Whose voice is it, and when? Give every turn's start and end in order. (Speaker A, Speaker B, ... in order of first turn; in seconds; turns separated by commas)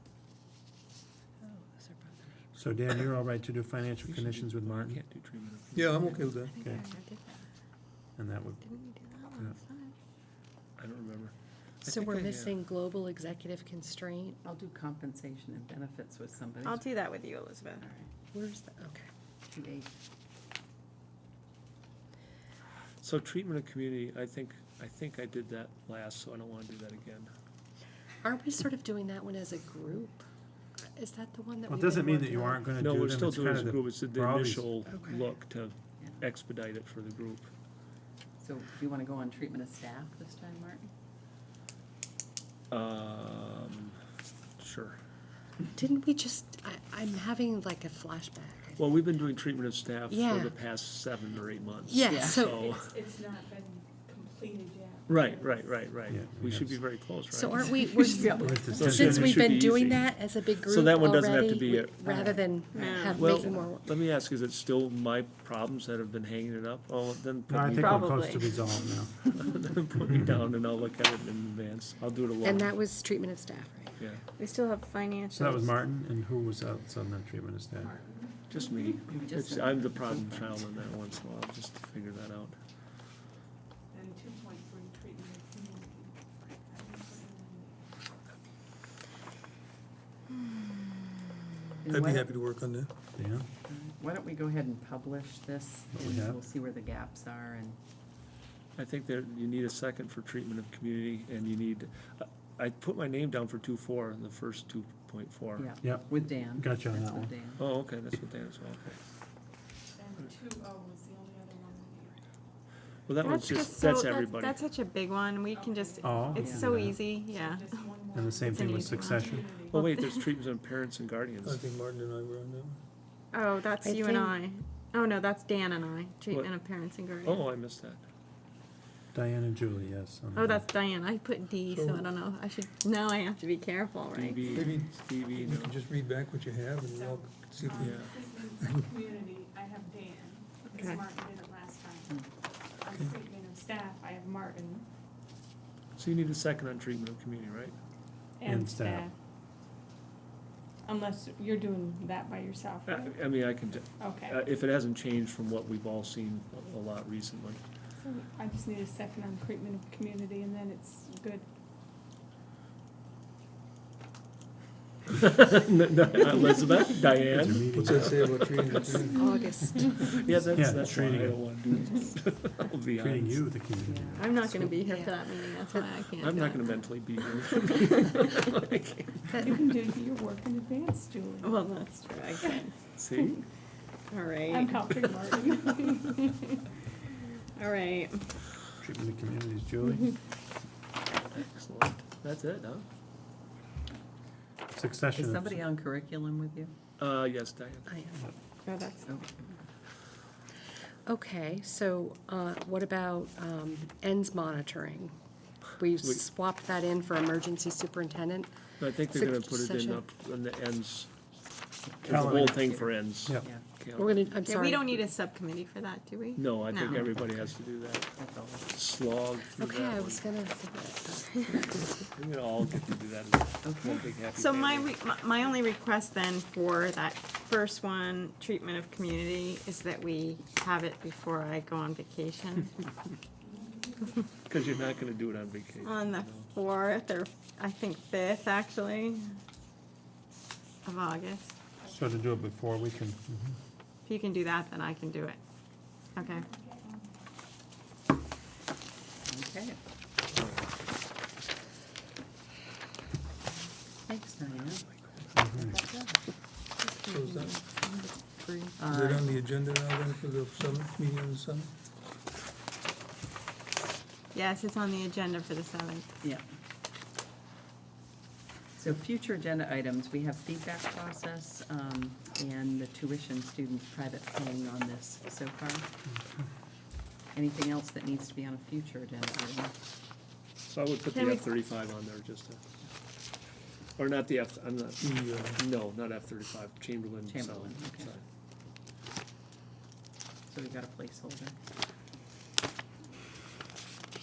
Speaker A: 1.4-2.3, Speaker B: 2.5-5.0, Speaker C: 4.0-6.2, Speaker D: 5.7-6.6, Speaker E: 6.5-7.4, Speaker B: 8.2-8.7, Speaker E: 8.6-9.9, Speaker C: 10.8-12.6, Speaker F: 11.8-14.4, Speaker A: 14.4-16.8, Speaker E: 16.6-17.8, Speaker A: 17.8-18.1, Speaker F: 18.3-19.1, Speaker A: 19.5-19.9, Speaker C: 23.0-27.3, Speaker F: 28.2-30.2, Speaker F: 30.8-32.6, Speaker B: 31.7-34.8, Speaker C: 32.8-37.5, Speaker F: 34.9-35.2, Speaker A: 38.4-40.9, Speaker C: 42.7-44.0, Speaker C: 44.6-45.0, Speaker F: 45.7-48.9, Speaker C: 48.8-52.9, Speaker F: 50.1-50.5, Speaker F: 51.9-52.7, Speaker A: 52.1-52.4, Speaker G: 52.5-55.9, Speaker C: 55.1-58.1, Speaker B: 56.0-57.0, Speaker F: 57.3-63.9, Speaker G: 58.1-58.7, Speaker B: 58.4-59.5, Speaker C: 58.7-62.0, Speaker A: 62.0-63.4, Speaker E: 62.8-63.2, Speaker C: 63.2-68.3, Speaker B: 67.5-69.3, Speaker E: 67.7-68.6, Speaker C: 69.3-72.7, Speaker F: 72.4-74.0, Speaker E: 74.4-75.6, Speaker B: 75.3-78.0, Speaker G: 77.8-78.3, Speaker C: 78.5-82.6, Speaker A: 79.1-80.6, Speaker G: 83.9-87.9, Speaker A: 91.8-92.3, Speaker D: 91.9-92.9, Speaker B: 93.2-93.5, Speaker A: 93.7-97.8, Speaker B: 95.9-96.4, Speaker C: 98.8-105.7, Speaker A: 105.6-107.6, Speaker B: 105.8-107.3, Speaker C: 107.6-109.0, Speaker G: 110.0-112.2, Speaker C: 113.1-114.6, Speaker E: 113.2-117.8, Speaker G: 115.6-119.9, Speaker B: 116.0-117.1, Speaker A: 116.4-116.6, Speaker B: 118.1-119.7, Speaker E: 118.4-119.2, Speaker C: 119.7-121.6, Speaker E: 119.7-120.2, Speaker D: 121.4-122.8, Speaker E: 123.3-127.5, Speaker F: 123.8-124.4, Speaker C: 127.2-128.0, Speaker B: 129.1-130.6, Speaker E: 130.3-134.7, Speaker D: 131.7-132.1, Speaker C: 134.1-135.8, Speaker D: 134.5-138.1, Speaker G: 136.9-142.2, Speaker C: 137.8-138.2, Speaker E: 140.7-141.0, Speaker G: 142.8-144.9, Speaker C: 145.9-147.8, Speaker G: 148.4-149.1, Speaker B: 148.4-149.1, Speaker G: 150.8-153.2, Speaker C: 152.8-157.6, Speaker G: 154.0-154.4, Speaker G: 158.0-161.5, Speaker C: 165.1-169.0, Speaker B: 167.3-168.4, Speaker D: 167.7-169.2, Speaker F: 169.1-170.5, Speaker G: 169.2-170.1, Speaker C: 170.0-173.4, Speaker B: 170.5-171.8, Speaker B: 172.9-174.3, Speaker A: 173.8-174.3, Speaker E: 174.2-176.7, Speaker F: 174.7-175.1, Speaker C: 176.2-179.6, Speaker E: 177.3-177.9, Speaker G: 179.3-181.6, Speaker E: 181.4-183.3, Speaker C: 183.0-183.4, Speaker E: 184.1-184.9, Speaker G: 184.5-186.2, Speaker E: 187.5-188.3, Speaker B: 188.8-190.1, Speaker C: 191.3-192.8, Speaker B: 194.7-195.6, Speaker A: 195.1-196.7, Speaker C: 197.0-197.9, Speaker F: 197.9-198.2, Speaker E: 198.7-199.1, Speaker A: 199.1-199.5, Speaker F: 201.1-210.0, Speaker C: 208.8-211.1, Speaker A: 211.8-213.6, Speaker C: 212.0-214.2, Speaker B: 212.1-213.5, Speaker F: 213.9-215.1, Speaker E: 214.4-217.1, Speaker C: 216.3-218.2, Speaker A: 216.8-217.5, Speaker A: 218.2-218.7, Speaker C: 218.7-220.2, Speaker F: 219.5-222.1, Speaker C: 222.1-225.0, Speaker A: 223.6-224.0, Speaker E: 224.3-232.7, Speaker C: 234.4-236.5, Speaker E: 235.8-239.4, Speaker E: 240.8-241.6, Speaker B: 241.8-243.5, Speaker E: 244.0-245.4, Speaker E: 246.1-246.5, Speaker A: 249.2-249.8, Speaker A: 254.1-254.8, Speaker B: 255.3-255.8, Speaker E: 255.8-256.0, Speaker E: 256.8-258.8, Speaker D: 257.0-257.6, Speaker A: 258.8-259.3, Speaker D: 258.9-261.7, Speaker E: 264.3-266.1, Speaker A: 268.8-275.9, Speaker A: 277.3-279.7, Speaker C: 280.7-282.6, Speaker E: 281.1-281.5, Speaker C: 284.0-288.2, Speaker D: 285.0-285.7, Speaker A: 287.3-288.1, Speaker A: 290.5-291.5